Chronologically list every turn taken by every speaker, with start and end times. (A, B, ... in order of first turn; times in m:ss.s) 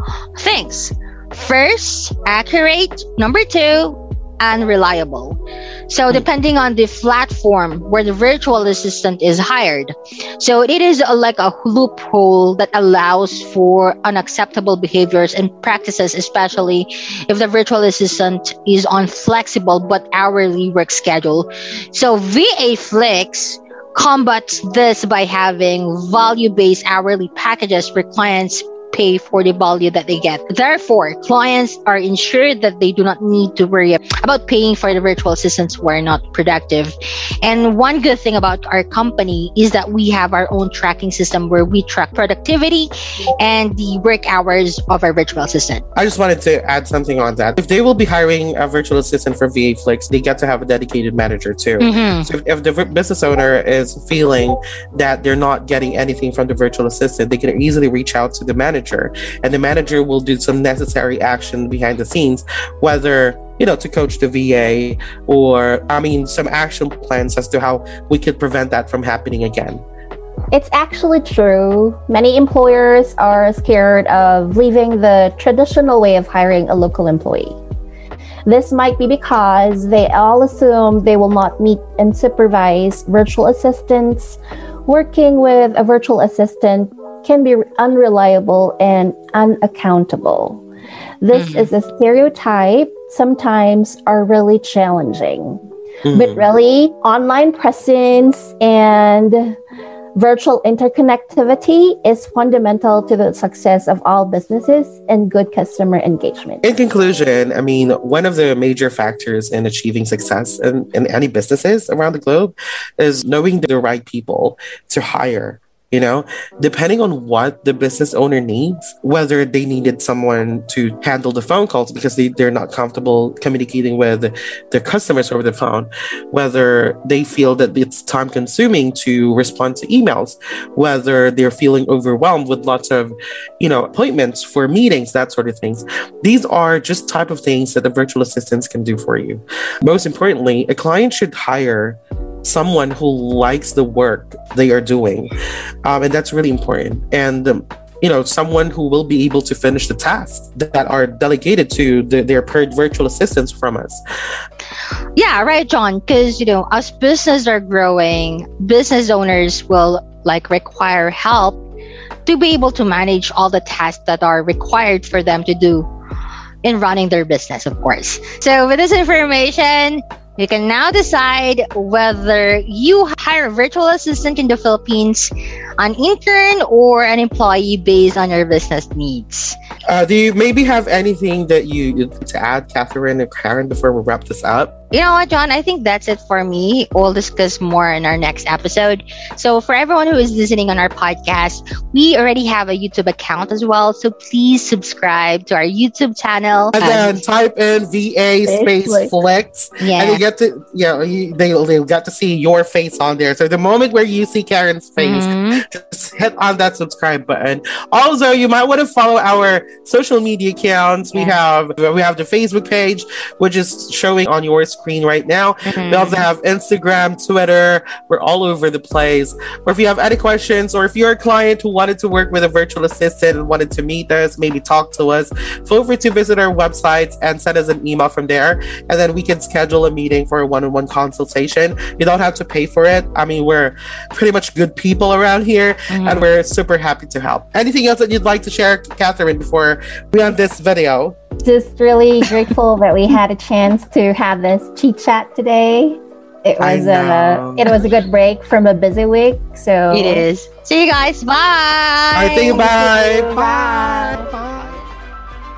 0:00.4-0:45.8 A
0:46.0-1:09.8 B
0:51.8-0:52.3 A
1:10.5-1:17.6 C
1:18.4-1:30.6 C
1:31.2-1:35.6 C
1:31.3-1:31.7 A
1:36.0-1:36.4 B
1:36.1-1:39.6 C
1:40.2-1:46.6 C
1:46.6-2:25.3 B
2:25.8-2:34.0 B
2:35.2-2:41.6 A
2:42.2-2:45.9 A
2:46.6-2:59.6 A
2:59.9-3:04.7 B
3:04.9-3:17.2 A
3:16.7-4:01.2 B
3:18.4-3:19.1 C
3:19.8-3:20.2 A
3:25.0-3:25.6 A
3:31.1-3:31.4 A
3:35.7-3:36.2 A
3:55.9-3:56.3 A
4:01.4-4:10.2 C
4:06.6-4:07.7 B
4:09.9-4:12.7 A
4:12.1-4:14.8 B
4:12.5-4:14.3 C